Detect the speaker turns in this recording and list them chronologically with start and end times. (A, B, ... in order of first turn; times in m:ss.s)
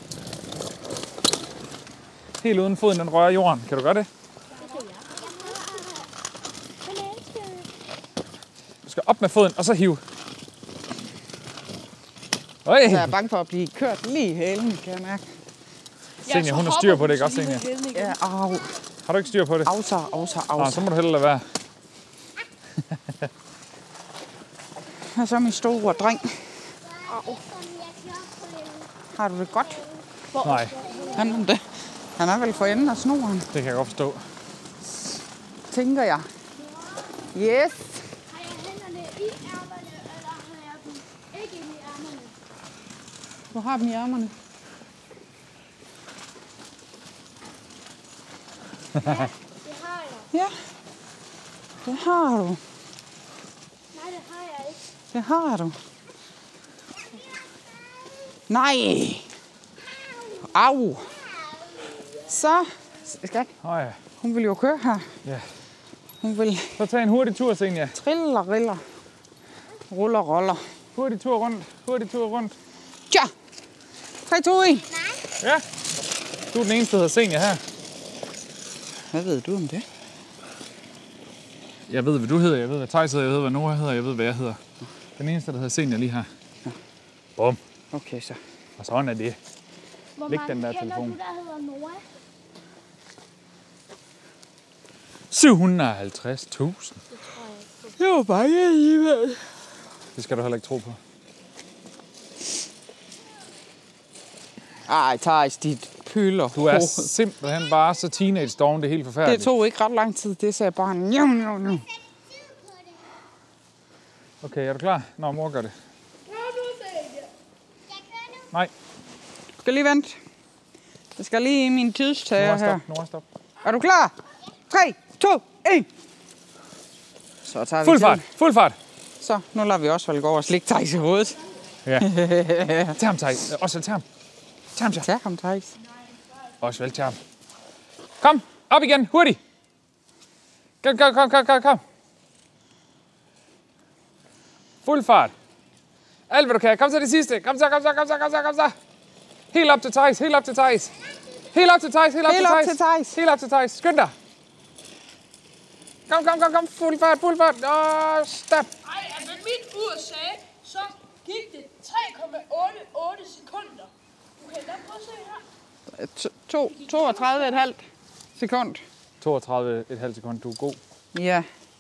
0:02.4-0:04.1 A
0:04.5-0:06.1 B
0:04.5-0:04.9 C
0:05.1-0:05.9 D
0:06.9-0:07.5 C
0:06.9-0:07.7 B
0:08.9-0:10.0 A
0:12.6-0:13.1 A
0:12.9-0:15.2 E
0:16.2-0:18.2 C
0:16.2-0:17.7 A
0:17.9-0:18.7 E
0:19.1-0:19.7 A
0:19.6-0:20.9 E
0:20.0-0:20.4 D
0:20.6-0:21.4 A
0:22.9-0:23.3 A
0:25.2-0:26.3 E
0:26.8-0:31.5 D
0:29.2-0:29.8 E
0:30.3-0:31.4 C
0:30.4-0:30.8 A
0:30.9-0:31.3 B
0:31.2-0:31.6 E
0:32.2-0:33.5 E
0:33.5-0:34.2 A
0:35.7-0:36.3 E
0:36.6-0:37.2 B
0:37.3-0:38.0 E
0:38.3-0:42.4 B
0:43.5-0:44.3 E
0:49.0-0:49.3 A
0:49.0-0:50.3 B
0:51.8-0:52.6 E
0:53.9-0:54.8 B
0:55.1-0:55.8 E
0:57.2-0:58.3 D
0:58.5-0:59.3 E
1:00.1-1:00.6 D
1:00.4-1:01.1 E
1:01.1-1:02.3 D
1:02.3-1:03.5 E
1:03.6-1:04.0 A
1:04.2-1:05.1 E
1:06.2-1:06.8 E
1:06.8-1:08.0 A
1:08.0-1:08.8 E
1:09.9-1:10.6 E
1:11.0-1:12.6 A
1:14.3-1:14.8 E
1:14.8-1:15.2 D
1:16.5-1:17.6 A
1:19.1-1:19.8 E
1:21.9-1:24.6 A
1:25.2-1:26.3 A
1:27.9-1:28.4 E
1:28.8-1:29.4 A
1:30.2-1:32.1 B
1:30.3-1:31.2 A
1:35.3-1:37.0 A
1:37.1-1:38.0 B
1:38.0-1:39.4 E
1:40.2-1:41.0 A
1:44.9-1:47.1 E
1:46.5-1:49.5 A
1:49.2-1:51.8 E
1:51.6-1:53.1 D
1:54.4-1:55.7 A
1:56.2-1:57.3 C
1:57.9-1:58.5 D
1:59.6-2:00.2 E
2:01.2-2:02.8 E
2:02.4-2:03.2 A
2:03.6-2:04.2 E
2:04.7-2:05.9 E
2:07.4-2:08.2 E
2:07.8-2:08.8 A
2:09.2-2:11.4 E
2:11.8-2:12.1 A
2:12.0-2:13.0 E
2:13.0-2:14.0 A
2:14.8-2:15.1 A
2:15.0-2:15.7 E
2:16.6-2:17.2 A
2:18.2-2:19.4 A
2:20.8-2:21.8 A
2:24.8-2:25.3 A
2:26.3-2:28.8 A
2:29.5-2:30.9 A
2:31.5-2:34.1 A
2:32.3-2:33.2 E
2:36.1-2:38.7 A
2:38.8-2:45.4 C
2:45.9-2:47.8 E
2:46.8-2:47.5 C
2:48.4-2:48.8 E
2:49.2-2:50.8 A
2:51.1-2:51.5 E